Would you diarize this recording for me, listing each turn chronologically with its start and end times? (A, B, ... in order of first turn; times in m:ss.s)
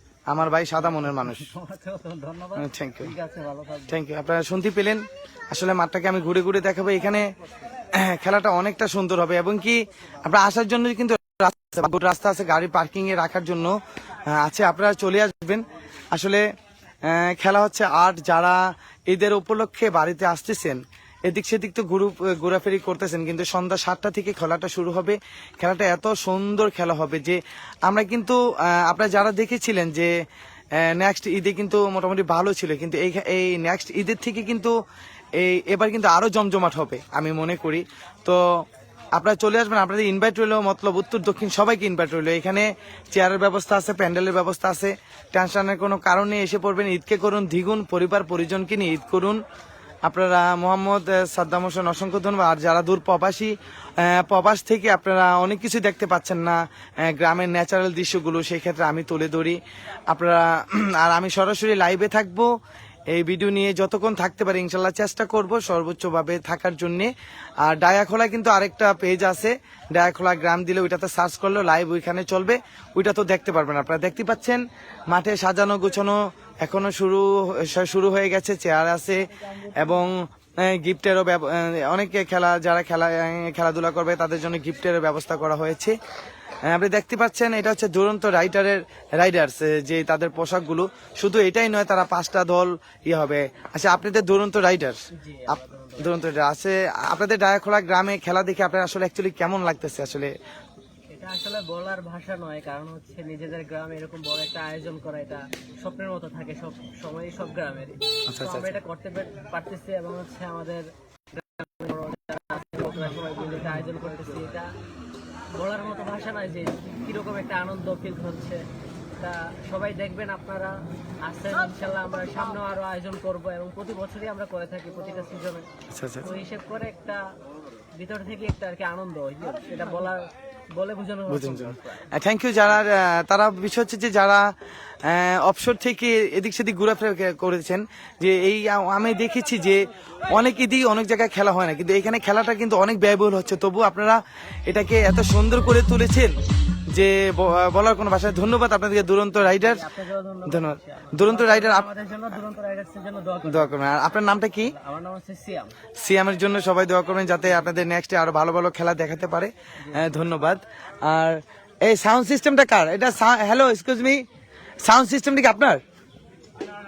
0:00.3-0:01.5 A
0:01.0-0:03.9 B
0:02.6-0:03.1 A
0:03.9-0:07.2 A
0:07.9-0:13.7 A
0:14.3-0:16.4 A
0:17.0-0:30.1 A
0:30.8-0:34.7 A
0:35.4-0:38.6 A
0:39.2-0:49.4 A
0:50.0-0:59.6 A
1:00.1-1:02.5 A
1:03.1-1:25.9 A
1:26.6-1:40.3 A
1:35.2-1:36.1 C
1:41.1-1:50.8 C
1:48.3-1:48.8 A
1:51.3-1:54.7 C
1:53.3-1:53.8 B
1:55.5-1:58.6 C
1:59.2-2:00.7 C
2:01.2-2:05.7 C
2:05.9-2:06.3 A
2:06.2-2:07.2 C
2:07.9-2:10.2 C
2:10.7-2:11.8 C
2:11.3-2:26.3 A
2:26.9-2:29.9 A
2:29.5-2:33.7 C
2:30.5-2:31.8 A
2:33.5-2:34.7 A
2:34.6-2:35.7 C
2:36.0-2:44.2 A
2:44.8-2:45.8 A